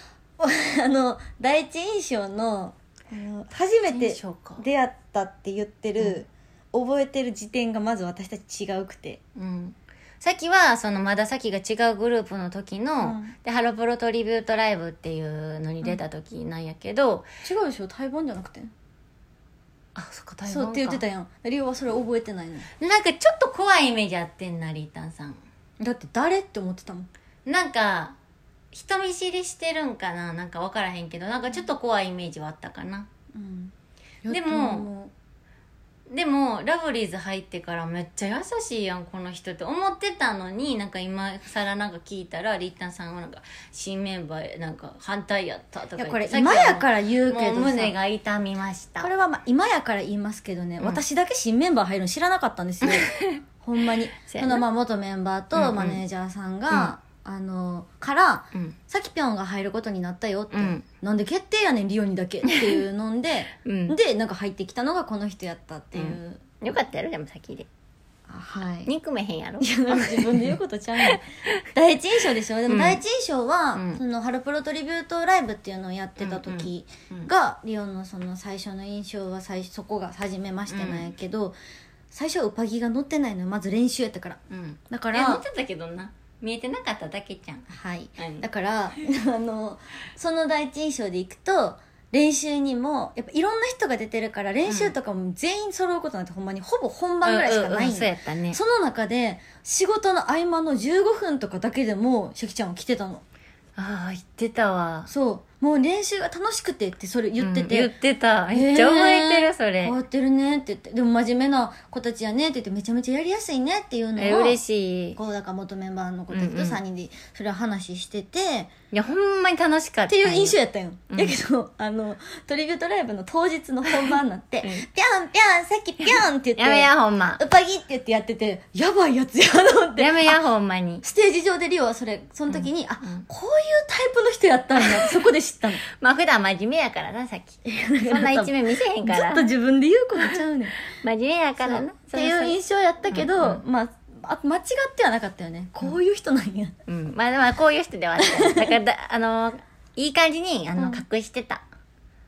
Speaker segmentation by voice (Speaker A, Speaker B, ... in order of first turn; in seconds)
Speaker A: 0.4-9.2, 13.0-13.3, 17.4-18.7, 20.4-22.7, 25.8-27.1, 33.4-33.7, 34.2-35.1, 46.0-48.0, 49.0-66.4, 68.3-68.9, 69.6-81.5, 82.1-84.4, 84.9-85.4, 87.7-103.2, 105.1-107.9, 108.5-114.6, 115.2-118.7, 120.1-130.4, 131.0-135.8, 137.7-140.8, 141.6-146.7, 148.2-148.7, 150.8-151.0
Speaker B: 3.9-4.6, 9.4-17.3, 19.9-21.0, 22.8-25.4, 27.5-28.2, 28.7-33.1, 34.3-34.9, 36.1-49.1, 52.8-53.4, 54.3-54.6, 55.5-56.0, 56.7-57.0, 60.5-60.9, 63.6-64.0, 65.9-67.7, 68.9-71.6, 72.7-73.0, 73.8-74.0, 76.2-77.3, 80.7-81.1, 84.5-87.7, 88.2-88.4, 94.7-95.0, 97.2-98.6, 103.8-105.1, 107.4-110.0, 114.2-115.2, 116.3-116.8, 118.9-120.6, 121.1-121.4, 126.6-127.4, 130.0-131.0, 132.5-133.2, 134.8-135.2, 136.0-139.5, 141.0-142.6, 143.1-143.6, 146.9-151.6